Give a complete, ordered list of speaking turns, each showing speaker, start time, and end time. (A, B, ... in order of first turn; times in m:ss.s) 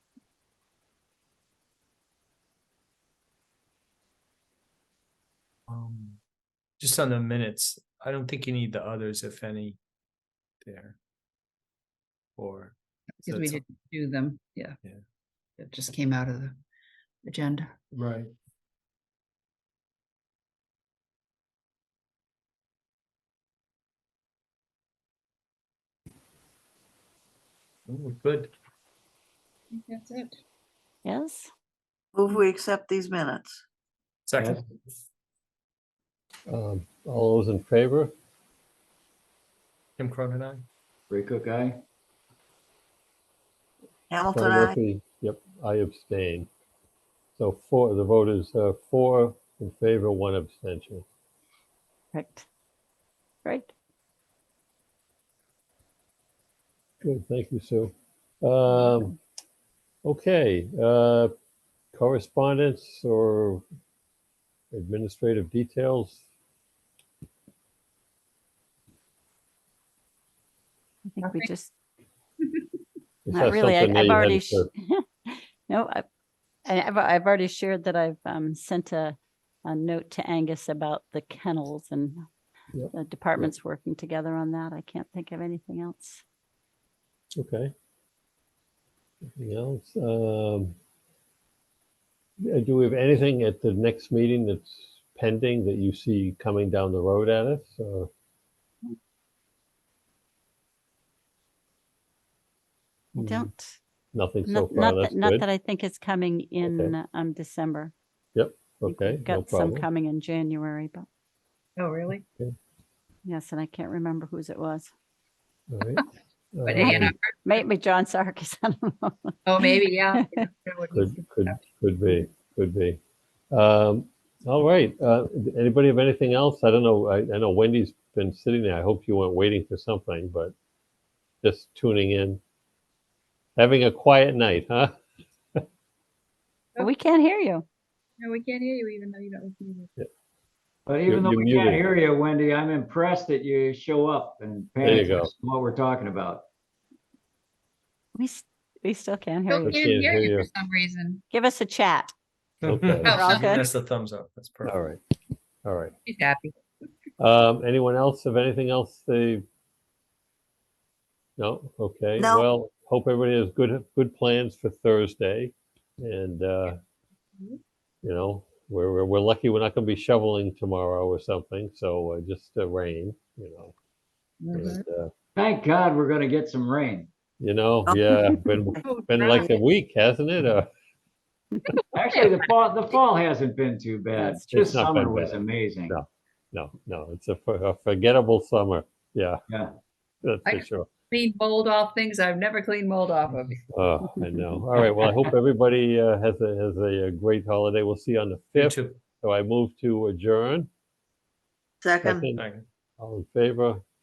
0:05.7-0:06.2 A
0:06.8-0:09.8 A
0:10.6-0:11.0 A
0:12.4-0:12.7 A
0:13.2-0:14.8 B
0:13.3-0:13.6 A
0:15.6-0:16.6 B
0:17.2-0:17.8 B
0:17.9-0:18.3 A
0:27.9-0:28.5 A
0:29.7-0:30.4 B
0:31.0-0:31.5 C
0:32.2-0:33.6 D
0:34.3-0:34.9 A
0:36.5-0:38.1 E
0:40.0-0:40.7 A
0:41.1-0:41.8 F
0:44.1-0:44.8 D
0:44.3-0:46.5 E
0:47.4-0:51.0 E
0:52.1-0:52.4 C
0:53.4-0:53.7 C
0:57.0-0:59.2 E
1:00.0-1:01.3 E
1:01.9-1:03.6 E
1:04.7-1:06.2 E
1:11.1-1:11.7 C
1:11.2-1:11.5 B
1:13.3-1:14.7 E
1:13.3-1:16.0 C
1:16.7-1:22.3 C
1:22.7-1:23.5 E
1:22.9-1:26.2 C
1:27.4-1:27.7 E
1:29.4-1:30.8 E
1:32.4-1:38.1 E
1:43.2-1:43.5 E
1:43.2-1:43.8 C
1:44.1-1:45.5 E
1:44.5-1:47.9 C
1:46.6-1:47.0 E
1:48.4-1:49.9 E
1:48.8-1:51.1 C
1:51.8-1:52.2 B
1:53.2-1:54.9 C
1:55.7-1:57.1 E
1:56.6-1:57.6 B
1:56.8-1:59.8 C
1:59.5-2:01.6 B
2:00.9-2:03.0 E
2:03.5-2:10.5 E
2:11.4-2:12.4 E
2:13.6-2:15.0 E
2:16.8-2:17.6 C
2:18.2-2:19.9 B
2:20.9-2:26.5 F
2:21.1-2:21.9 E
2:24.8-2:25.3 E
2:28.2-2:29.8 C
2:29.5-2:31.2 B
2:29.6-2:30.5 E
2:31.3-2:32.1 C
2:32.6-2:34.7 A
2:32.6-2:33.2 E
2:33.0-2:33.7 C
2:33.0-2:33.4 B
2:34.6-2:35.0 E
2:35.6-2:35.9 E
2:36.1-2:36.6 B
2:37.2-2:39.4 E
2:41.4-2:46.8 E
2:42.2-2:42.5 D
2:48.0-2:53.7 E
2:54.4-2:54.8 B
2:54.5-2:55.1 E
2:55.4-2:57.1 F
2:57.4-3:00.7 E
2:58.8-2:59.4 B
3:01.9-3:06.0 F
3:04.2-3:04.4 C
3:04.5-3:09.4 E
3:10.2-3:10.9 E
3:10.5-3:13.6 B
3:13.7-3:20.7 E
3:14.9-3:15.3 F
3:18.6-3:19.0 A
3:21.8-3:22.3 D
3:22.0-3:22.4 E
3:22.4-3:22.6 A
3:23.0-3:23.8 E